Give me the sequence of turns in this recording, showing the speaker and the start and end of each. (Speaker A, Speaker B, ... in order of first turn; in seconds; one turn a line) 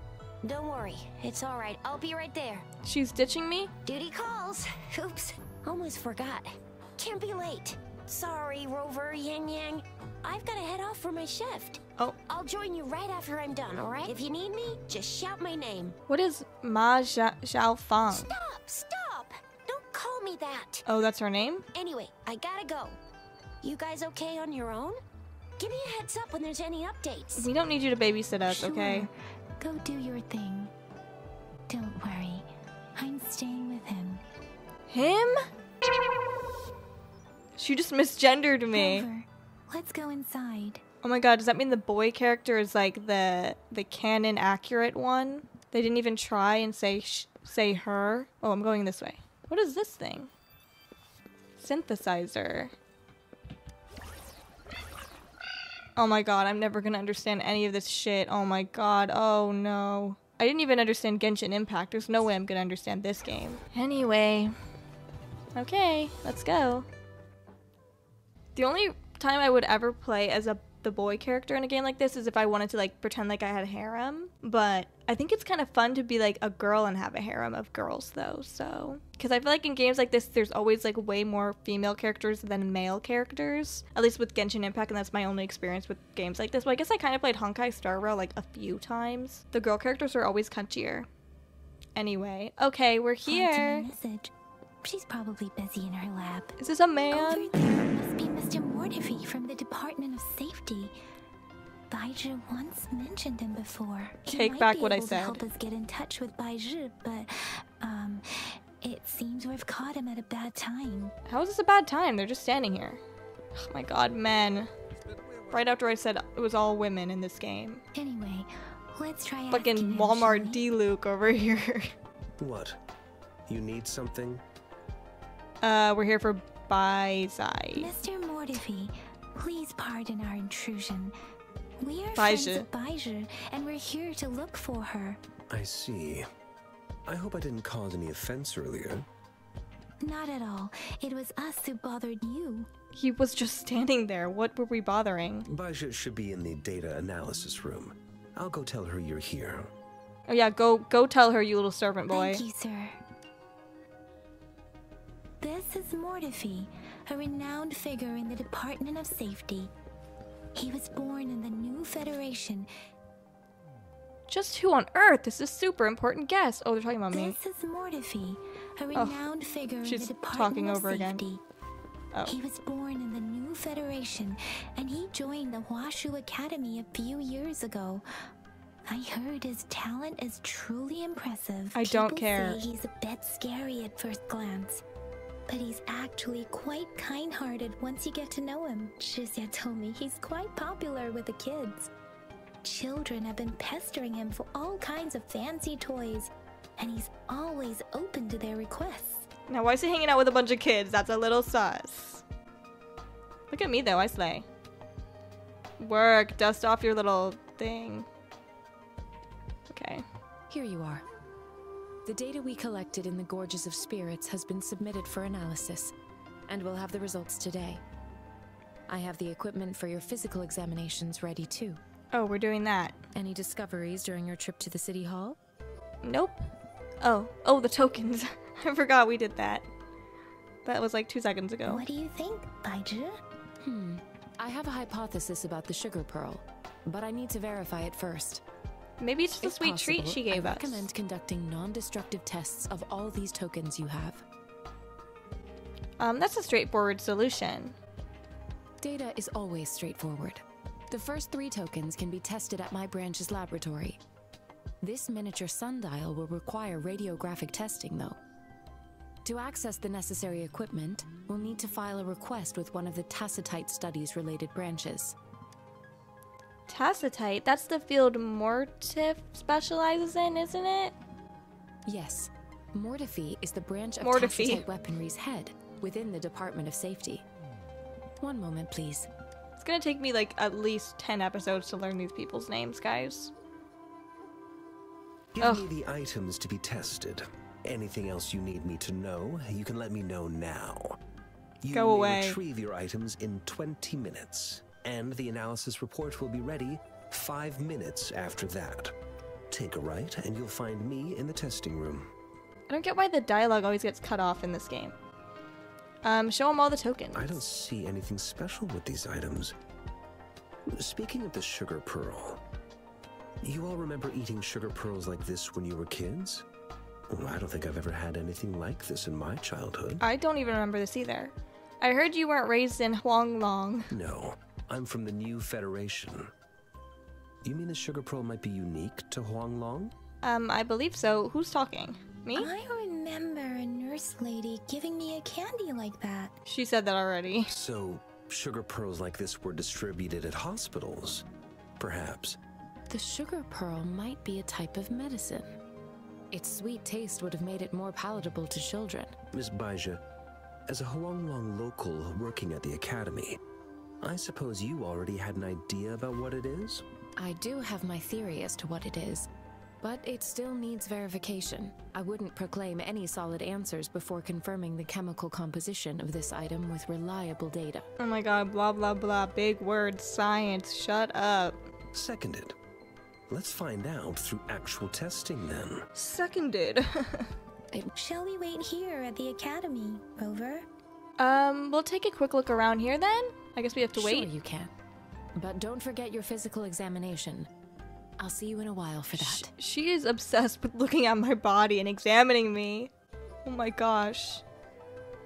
Speaker A: 0.4-2.7
Speaker B: 2.8-3.7
Speaker A: 3.9-15.9
Speaker B: 16.1-18.3
Speaker A: 18.1-20.8
Speaker B: 20.9-21.6
Speaker A: 21.7-23.0
Speaker A: 23.6-25.0
Speaker A: 25.6-27.5
Speaker B: 27.4-29.1
Speaker C: 28.5-30.7
Speaker C: 31.7-34.2
Speaker B: 34.9-35.4
Speaker B: 37.6-39.1
Speaker C: 38.7-40.8
Speaker B: 41.0-50.3
Speaker B: 51.6-52.7
Speaker B: 56.0-64.5
Speaker B: 65.5-66.9
Speaker B: 68.6-91.1
Speaker B: 92.0-93.9
Speaker C: 93.3-94.3
Speaker C: 94.8-96.6
Speaker B: 96.6-97.5
Speaker C: 97.1-101.0
Speaker C: 101.9-111.1
Speaker B: 104.3-105.4
Speaker B: 111.3-113.0
Speaker B: 113.6-114.7
Speaker B: 115.5-117.8
Speaker C: 118.0-120.6
Speaker B: 119.5-121.9
Speaker D: 122.4-122.8
Speaker D: 123.5-124.4
Speaker B: 125.6-127.9
Speaker C: 127.8-131.2
Speaker C: 131.8-135.2
Speaker B: 132.2-132.7
Speaker D: 135.5-136.3
Speaker D: 137.1-139.1
Speaker C: 140.0-142.7
Speaker B: 142.9-145.5
Speaker D: 145.5-149.7
Speaker B: 150.3-152.4
Speaker C: 152.1-153.0
Speaker C: 155.4-159.7
Speaker C: 160.6-162.7
Speaker B: 164.3-167.4
Speaker C: 167.1-171.4
Speaker B: 169.8-171.2
Speaker C: 172.3-178.1
Speaker C: 178.9-184.8
Speaker B: 181.8-182.6
Speaker C: 185.5-191.9
Speaker C: 192.6-199.3
Speaker B: 199.5-202.2
Speaker B: 203.5-204.4
Speaker B: 205.8-208.1
Speaker B: 209.7-210.0
Speaker E: 210.5-211.1
Speaker E: 212.1-215.9
Speaker E: 216.5-217.8
Speaker E: 218.9-221.8
Speaker B: 222.1-223.0
Speaker E: 223.1-225.4
Speaker B: 226.0-226.4
Speaker B: 227.0-229.7
Speaker B: 230.7-231.8
Speaker C: 231.7-233.2
Speaker E: 233.6-238.4
Speaker B: 239.0-240.8
Speaker E: 239.4-244.2
Speaker B: 246.0-247.8
Speaker E: 248.8-254.0
Speaker E: 254.8-258.2
Speaker E: 259.2-265.2
Speaker B: 266.7-270.9
Speaker E: 271.9-277.2
Speaker B: 274.0-274.6
Speaker E: 278.2-279.1
Speaker B: 279.6-283.3
Speaker D: 285.4-291.0
Speaker B: 285.4-285.7
Speaker D: 291.6-298.9
Speaker B: 291.7-292.4
Speaker D: 299.5-302.1
Speaker B: 302.7-304.9
Speaker B: 306.0-307.4
Speaker D: 307.1-309.6
Speaker D: 310.7-312.4
Speaker D: 313.4-316.4
Speaker D: 317.1-320.0
Speaker B: 320.0-323.9
Speaker D: 323.9-326.3
Speaker D: 327.4-329.9
Speaker B: 330.2-332.5
Speaker C: 332.4-336.4
Speaker B: 336.5-337.5
Speaker D: 337.5-341.2
Speaker D: 341.8-342.4
Speaker E: 342.9-345.6
Speaker E: 346.3-349.2
Speaker D: 349.3-350.0
Speaker D: 350.7-353.4
Speaker D: 354.0-356.8
Speaker E: 357.2-359.3
Speaker E: 359.8-367.9
Speaker B: 368.0-371.6
Speaker D: 371.9-372.6
Speaker D: 373.3-375.8
Speaker B: 376.0-377.3
Speaker C: 377.9-380.7
Speaker B: 381.2-384.3
Speaker E: 383.9-384.7
Speaker E: 385.3-387.5
Speaker E: 388.2-389.5
Speaker B: 389.1-392.9
Speaker B: 393.4-394.4